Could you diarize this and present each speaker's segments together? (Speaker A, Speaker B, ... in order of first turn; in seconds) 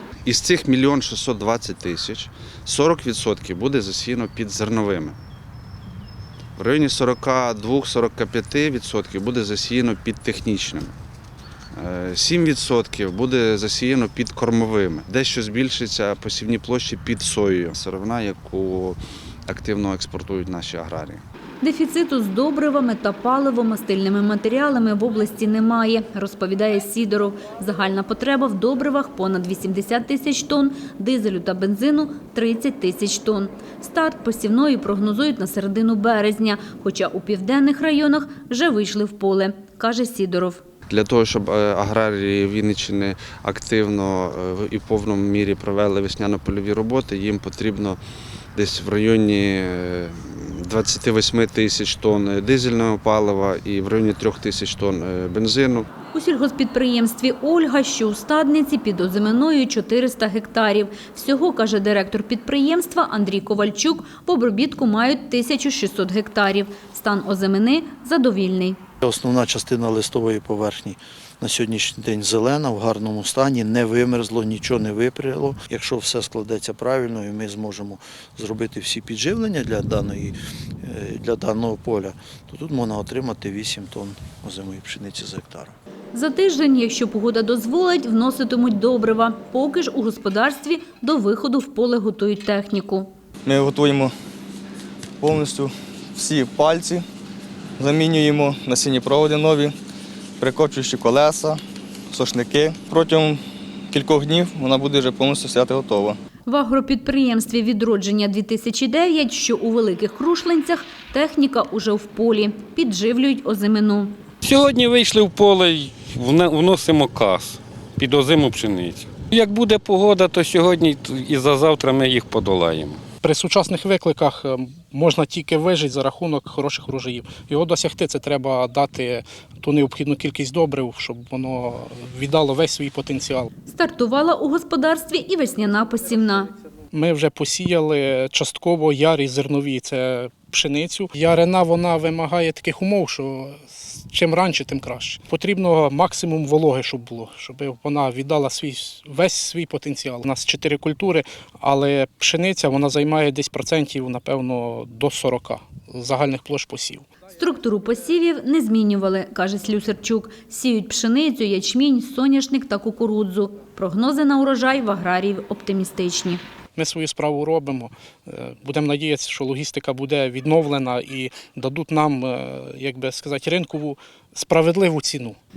Speaker A: 0.2-5.2, 6.6-10.9, 11.8-21.2, 40.9-48.0, 48.5-55.9
Speaker B: 21.6-40.6, 56.1-68.8, 86.1-93.1, 106.5-114.1, 133.7-136.5, 157.3-166.4
Speaker C: 69.0-85.7
Speaker D: 93.5-94.1, 95.2-97.0, 97.8-99.7, 100.4-101.6, 102.1-103.4, 103.9-106.2
Speaker E: 114.4-123.0
Speaker F: 123.2-133.5, 136.9-157.1, 166.7-175.4